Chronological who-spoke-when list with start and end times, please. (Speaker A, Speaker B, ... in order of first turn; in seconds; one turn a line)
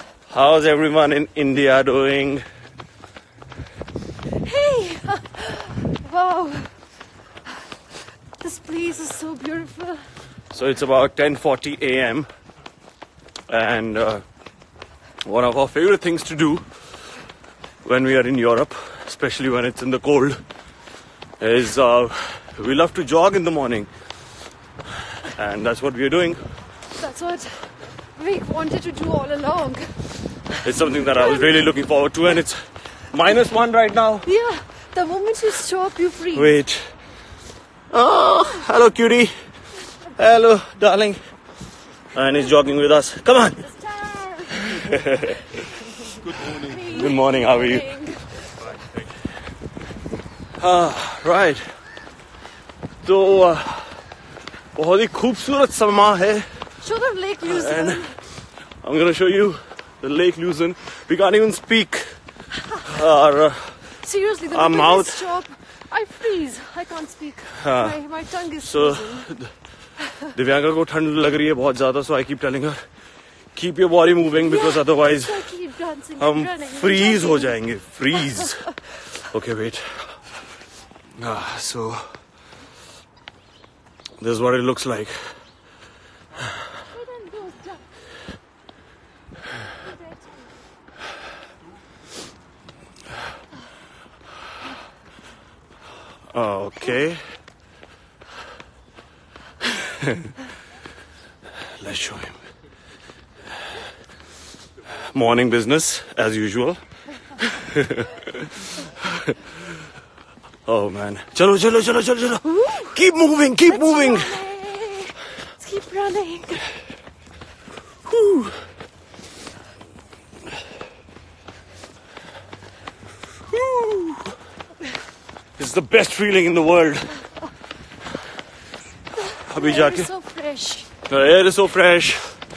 Speaker A: 0.3-2.4
Speaker B: 4.4-6.7
Speaker B: 8.4-10.0
Speaker A: 10.5-12.3
Speaker A: 13.5-14.2
Speaker A: 15.2-16.6
Speaker A: 17.8-20.4
Speaker A: 21.4-23.9
Speaker A: 25.2-26.4
Speaker B: 26.9-30.6
Speaker A: 30.6-32.6
Speaker B: 31.1-31.4
Speaker A: 33.1-34.3
Speaker B: 34.2-36.5
Speaker A: 36.3-36.9
Speaker A: 37.9-39.3
Speaker A: 40.1-41.2
Speaker A: 42.1-43.6
Speaker B: 43.6-44.9
Speaker A: 44.5-45.8
Speaker B: 46.0-48.7
Speaker A: 46.4-47.9
Speaker A: 50.6-51.6
Speaker A: 53.0-54.0
Speaker A: 54.7-56.4
Speaker B: 56.8-58.1
Speaker A: 57.5-58.1
Speaker A: 58.8-62.1
Speaker A: 62.8-63.8
Speaker B: 64.0-69.3
Speaker A: 64.5-65.3
Speaker A: 67.6-68.0
Speaker A: 68.6-69.5
Speaker A: 70.3-72.8
Speaker A: 73.5-75.4
Speaker B: 74.4-77.6
Speaker A: 76.2-78.7
Speaker A: 79.2-80.2
Speaker A: 81.2-82.2
Speaker A: 84.2-85.4
Speaker B: 86.9-87.8
Speaker A: 96.3-97.2
Speaker A: 100.0-100.3
Speaker A: 101.8-102.4
Speaker A: 105.1-106.8
Speaker A: 107.4-108.5
Speaker A: 109.0-109.3
Speaker A: 110.7-114.4
Speaker B: 112.4-113.0
Speaker B: 113.7-116.7
Speaker A: 118.1-118.5
Speaker A: 123.5-124.3
Speaker A: 125.6-127.2
Speaker B: 129.1-130.9
Speaker A: 129.4-130.1
Speaker A: 131.1-132.4